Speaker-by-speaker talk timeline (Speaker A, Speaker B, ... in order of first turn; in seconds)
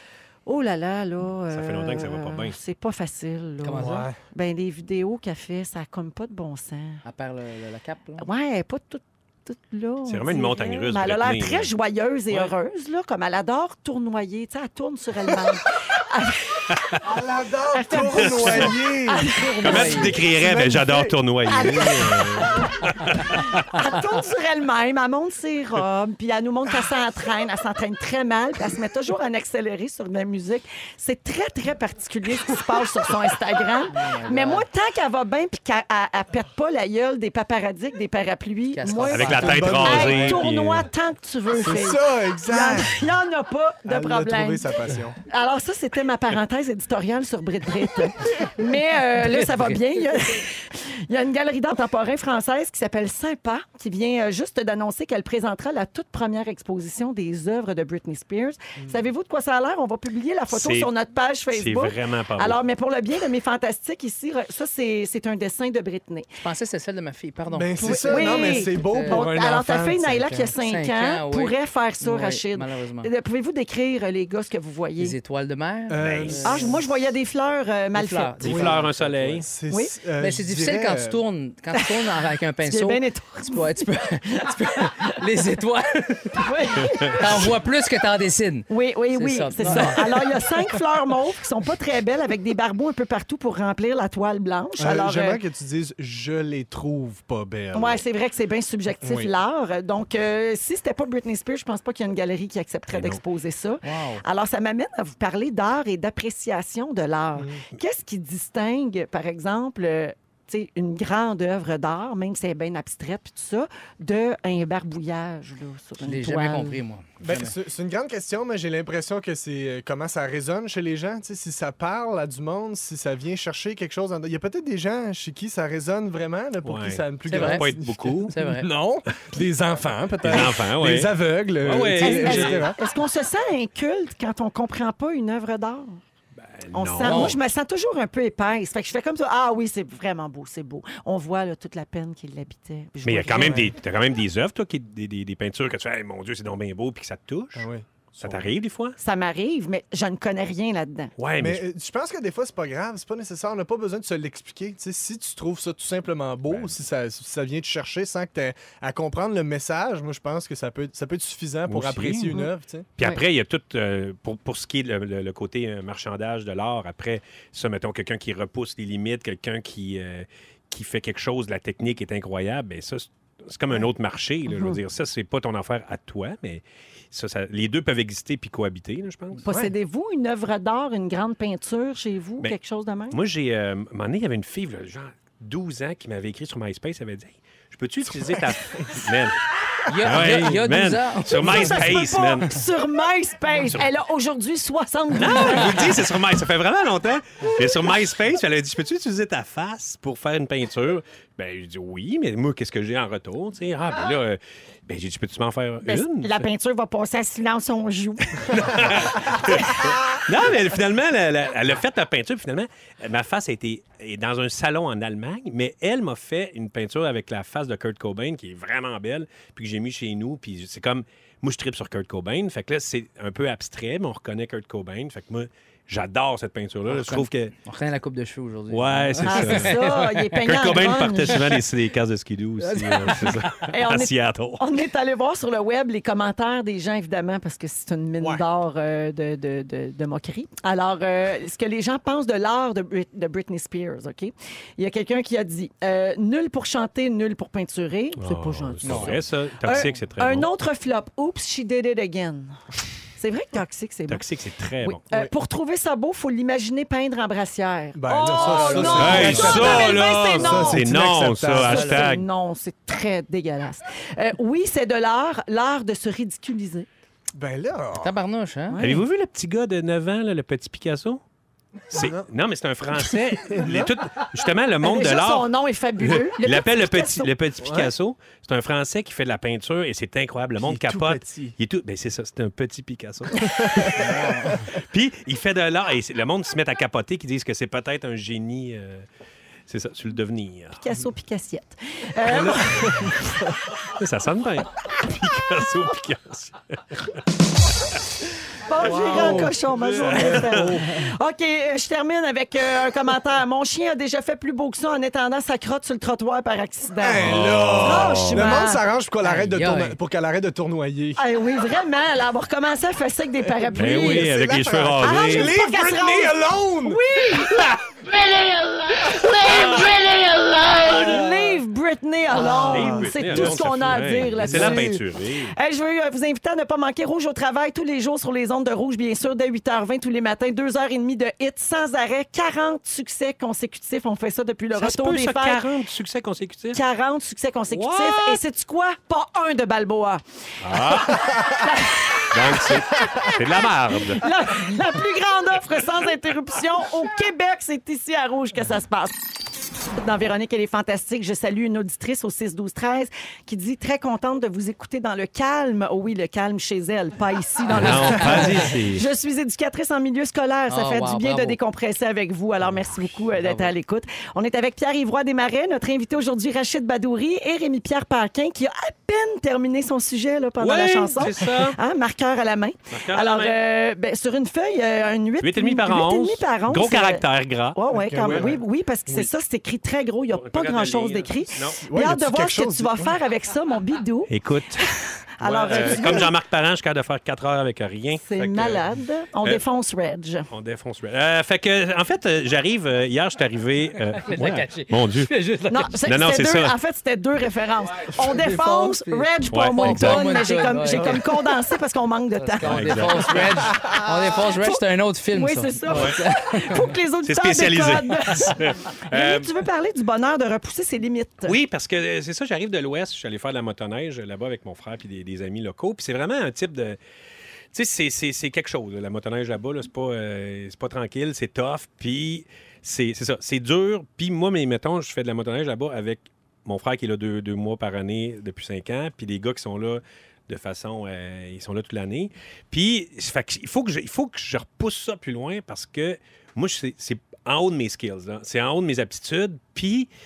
Speaker A: 0.5-7.0, 8.2-17.0, 17.7-19.9, 21.5-22.7, 23.3-44.6, 45.2-66.3, 67.8-75.2, 76.4-78.8, 79.7-79.9, 81.8-83.7, 86.4-87.5, 88.7-95.4, 97.7-116.8, 132.0-136.0, 136.7-143.7, 149.0-151.1, 174.5-174.8, 179.4-183.2, 191.4-196.0, 205.8-209.8, 229.2-231.6, 233.7-252.6, 253.2-254.2, 254.8-260.9, 261.5-266.9, 268.7-269.0, 273.6-273.9, 274.8-277.3, 290.8-293.4, 298.7-308.8, 311.2-314.3, 315.0-324.9, 325.5-335.6, 336.7-340.2, 340.8-349.1, 349.9-377.2, 377.8-386.4, 388.2-390.5, 395.7-404.1, 404.6-411.6
Speaker B: 1.5-2.6, 10.1-11.7, 18.1-18.8, 19.6-23.6, 39.1-40.9, 60.5-60.9, 61.5-62.6, 76.0-76.4, 78.4-79.5, 102.9-103.2, 126.6-128.3, 130.2-132.6, 136.4-137.4, 143.0-149.0, 151.2-151.6, 156.5-156.8, 161.7-179.4, 183.1-189.4, 190.0-192.6, 193.5-193.9, 195.1-206.4, 208.4-227.5, 228.7-229.8, 230.4-234.8, 248.2-250.5, 254.1-255.0, 258.6-262.3, 268.8-271.2, 271.9-284.1, 284.7-289.0, 289.7-290.8, 293.9-297.2, 299.0-300.7, 307.2-308.6, 313.7-315.6, 319.4-319.9, 322.7-325.6, 334.7-336.8, 337.7-338.4, 340.6-341.4, 342.3-344.2, 357.7-359.1, 370.6-371.8, 372.9-373.6, 375.4-378.6, 380.3-381.8, 384.3-384.9, 385.4-388.9, 390.5-395.3, 396.1-396.8, 399.5-400.3, 402.6-403.4, 405.9-406.1, 407.2-409.5, 411.4-417.0, 417.7-440.1
Speaker C: 3.6-4.1, 7.0-8.3, 19.3-20.1, 33.9-34.6, 38.7-39.8, 49.2-49.8, 66.4-69.3, 70.1-73.1, 75.0-76.8, 77.9-79.5, 80.2-90.4, 103.8-104.2, 116.0-117.6, 127.3-127.7, 128.3-128.7, 137.1-137.4, 189.9-191.8, 226.9-230.4, 232.6-233.6, 248.8-249.2, 258.4-259.6, 261.7-262.1, 268.0-268.8, 283.9-284.6, 298.9-299.5, 300.6-301.0, 309.2-310.0, 357.7-358.7, 360.7-361.6, 394.2-395.9, 398.2-401.3, 402.4-406.9
Speaker D: 3.8-4.2, 17.0-22.7, 39.3-40.4, 41.5-43.0, 43.9-45.2, 67.5-70.2, 75.9-76.7, 78.5-78.8, 79.4-81.2, 94.8-98.0, 99.0-99.3, 117.2-132.8, 147.6-148.5, 151.4-162.9, 179.4-179.7, 238.2-238.4, 257.9-261.8, 267.4-268.1, 271.9-272.3, 273.5-273.9, 277.6-277.9, 280.6-281.6, 283.4-284.1, 292.2-293.5, 299.1-300.7, 307.0-311.2, 313.7-317.0, 322.3-323.8, 324.4-325.0, 377.9-378.6, 381.8-383.2